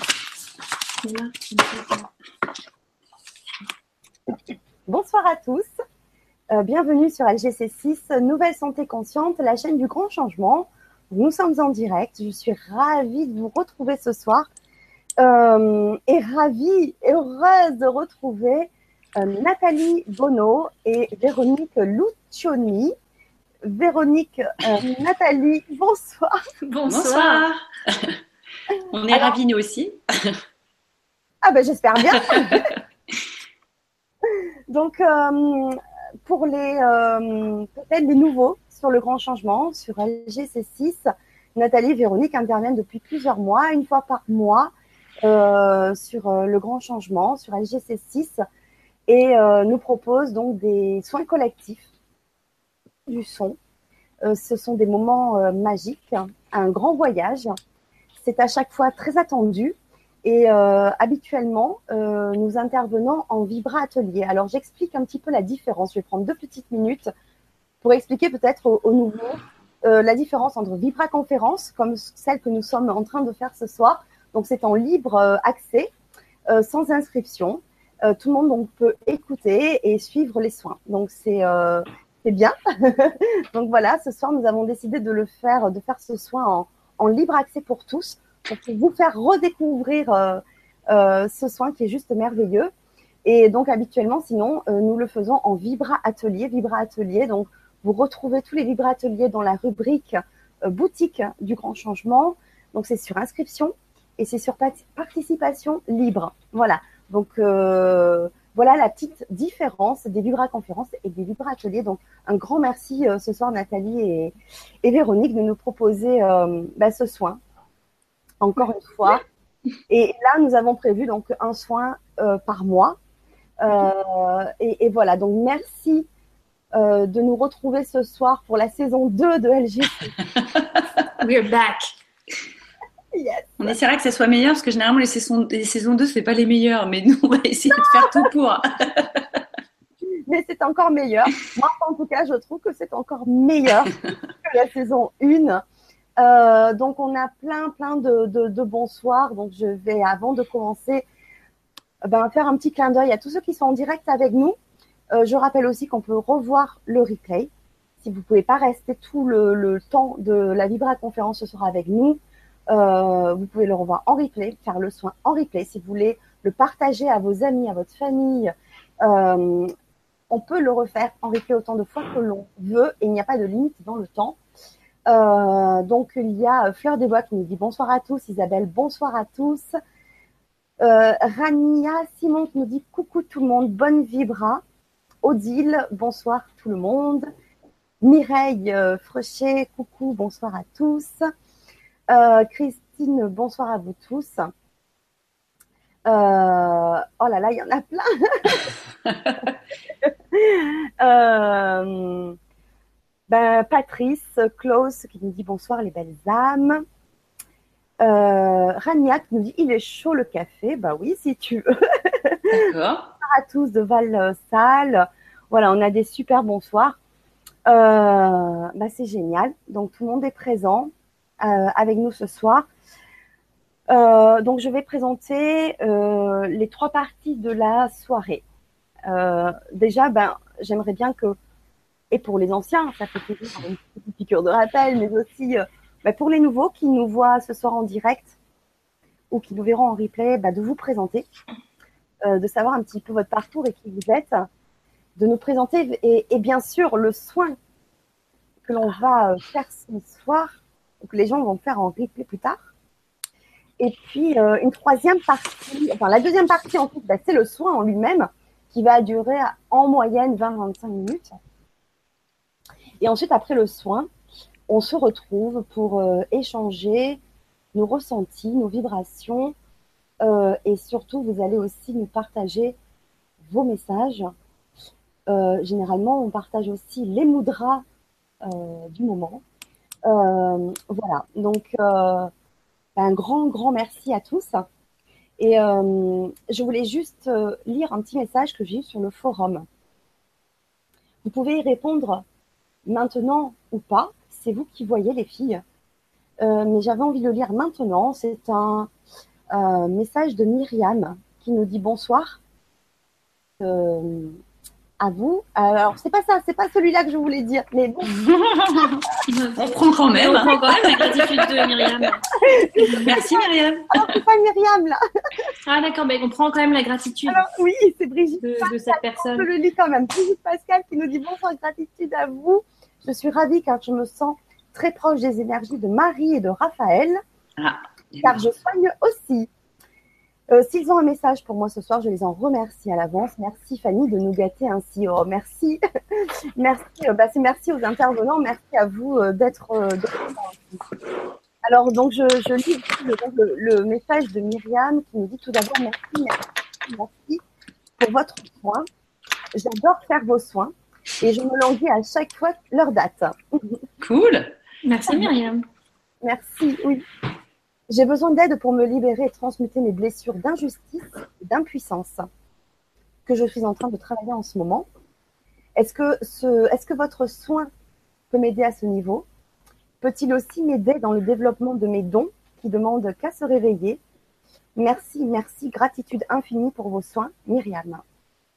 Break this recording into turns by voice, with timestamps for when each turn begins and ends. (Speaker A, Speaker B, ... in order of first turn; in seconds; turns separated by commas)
Speaker A: 1.0-2.1, Speaker B: 4.3-5.7, Speaker B: 6.5-14.5, Speaker B: 15.2-22.9, Speaker B: 23.6-26.4, Speaker A: 26.6-27.5, Speaker C: 26.9-28.2, Speaker C: 28.7-30.4, Speaker B: 29.1-29.4, Speaker B: 31.4-32.8, Speaker B: 34.3-44.7, Speaker B: 45.2-48.4, Speaker B: 49.1-51.9, Speaker B: 53.1-53.6, Speaker B: 54.2-57.6, Speaker B: 58.2-67.1, Speaker B: 67.8-75.9, Speaker B: 76.5-92.7, Speaker B: 93.2-117.4, Speaker B: 118.4-119.2, Speaker B: 119.9-123.0, Speaker B: 123.6-126.1, Speaker B: 126.7-130.1, Speaker A: 131.2-131.9, Speaker B: 133.1-133.8, Speaker C: 133.6-139.2, Speaker B: 137.7-138.3, Speaker B: 140.0-145.6, Speaker B: 146.2-151.1, Speaker B: 152.0-154.6, Speaker B: 155.1-169.7, Speaker B: 170.3-174.4, Speaker B: 175.1-179.8, Speaker B: 180.8-184.6, Speaker B: 185.2-187.3, Speaker B: 188.0-191.3, Speaker B: 192.1-194.5, Speaker B: 196.1-198.8, Speaker B: 200.0-202.4, Speaker B: 203.3-206.8, Speaker B: 208.0-217.0, Speaker C: 212.5-213.1, Speaker B: 217.7-222.7, Speaker B: 223.9-228.4, Speaker B: 229.1-231.4, Speaker B: 232.1-238.3, Speaker B: 239.3-241.3, Speaker B: 242.2-244.5, Speaker B: 245.2-247.6, Speaker B: 248.7-252.6, Speaker B: 253.8-261.4, Speaker B: 263.0-264.1, Speaker B: 264.7-267.2, Speaker B: 267.7-269.6, Speaker B: 270.2-272.8, Speaker B: 273.4-274.3, Speaker B: 275.3-277.8, Speaker B: 278.4-279.4, Speaker B: 280.1-282.3, Speaker B: 283.0-284.7, Speaker B: 285.4-289.7, Speaker B: 291.2-292.2, Speaker B: 292.9-295.6, Speaker B: 296.4-298.9, Speaker B: 299.5-302.4, Speaker B: 303.6-304.4, Speaker B: 305.0-308.1, Speaker C: 308.1-309.1, Speaker A: 309.3-312.2, Speaker C: 309.6-312.0, Speaker B: 312.4-315.5, Speaker C: 313.0-314.2, Speaker A: 315.7-317.4, Speaker B: 317.3-327.2, Speaker A: 318.4-319.5, Speaker C: 327.6-328.4, Speaker B: 328.2-329.5, Speaker B: 330.5-340.9, Speaker B: 341.6-347.4, Speaker B: 348.0-348.9, Speaker B: 349.5-353.8, Speaker C: 354.0-354.5, Speaker A: 354.8-355.6, Speaker B: 356.2-357.1, Speaker B: 357.9-362.3, Speaker B: 363.3-364.9, Speaker B: 365.8-367.7, Speaker B: 368.3-369.3, Speaker B: 370.0-374.0, Speaker B: 374.8-378.0